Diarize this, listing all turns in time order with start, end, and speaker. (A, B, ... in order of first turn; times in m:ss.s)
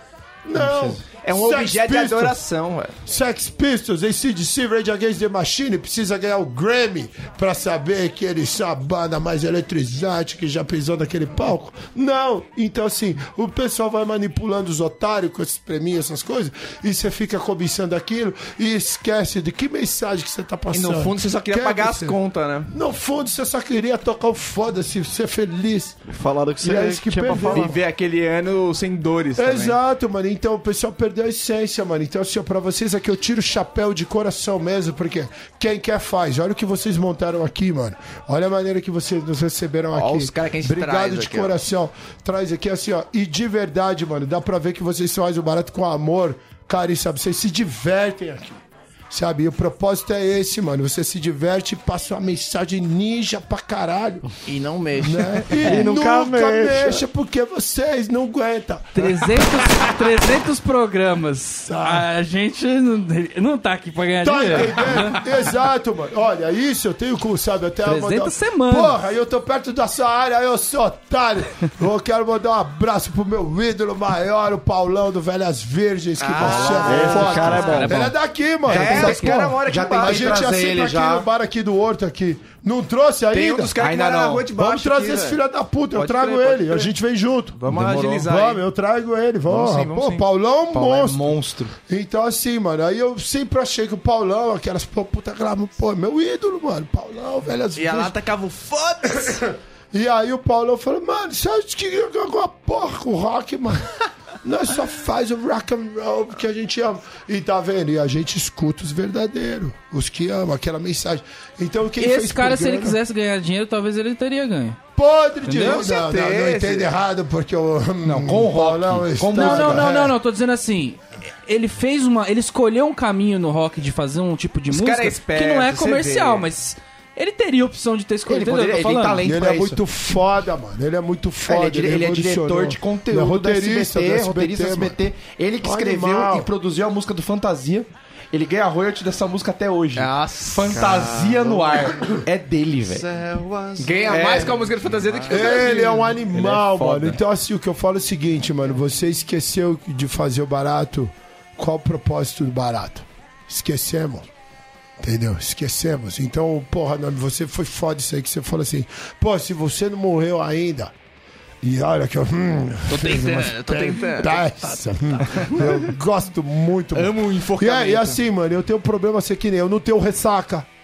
0:00.4-0:02.4 A
0:01.2-0:02.9 B
0:03.0-0:22.2 A
0:20.7-0:22.7 B
0:22.7-0:26.0 A
0:26.1-0:27.8 C
0:26.6-0:27.8 A
0:27.5-0:29.8 B
0:29.4-0:54.2 A
0:39.9-0:41.5 B
0:54.4-0:55.6 B
0:55.0-1:00.1 A
0:55.6-0:57.0 C
0:55.6-0:55.9 D
0:58.9-1:05.2 D
1:01.6-1:02.1 A
1:04.2-1:23.8 A
1:07.8-1:09.0 D
1:16.2-1:17.9 B
1:16.4-1:18.1 C
1:16.8-1:17.3 E
1:17.2-1:18.1 D
1:18.7-1:20.4 B
1:18.7-1:21.2 E
1:18.8-1:19.3 D
1:23.3-1:25.4 B
1:23.8-1:24.5 E
1:24.5-1:31.3 A
1:25.9-1:26.9 B
1:27.6-1:28.6 B
1:27.7-1:28.2 E
1:29.5-1:30.2 B
1:30.7-1:31.7 E
1:31.9-1:38.2 A
1:37.8-1:39.5 B
1:39.2-1:53.0 A
1:52.0-1:54.8 D
1:55.0-2:00.2 A
1:55.4-1:55.8 D
1:55.6-1:56.9 B
1:58.0-1:59.9 E
1:59.3-2:09.2 D
2:04.7-2:06.5 B
2:08.3-2:09.8 E
2:09.2-2:15.0 A
2:11.5-2:23.1 E
2:15.6-2:16.5 A
2:20.0-2:21.3 B
2:20.8-2:21.8 C
2:22.9-2:24.7 C
2:23.8-2:27.1 B
2:24.1-2:24.6 E
2:25.2-2:34.3 A
2:35.0-2:40.9 A
2:41.6-2:50.7 A
2:42.9-2:44.5 B
2:45.4-2:45.6 B
2:46.9-2:48.2 B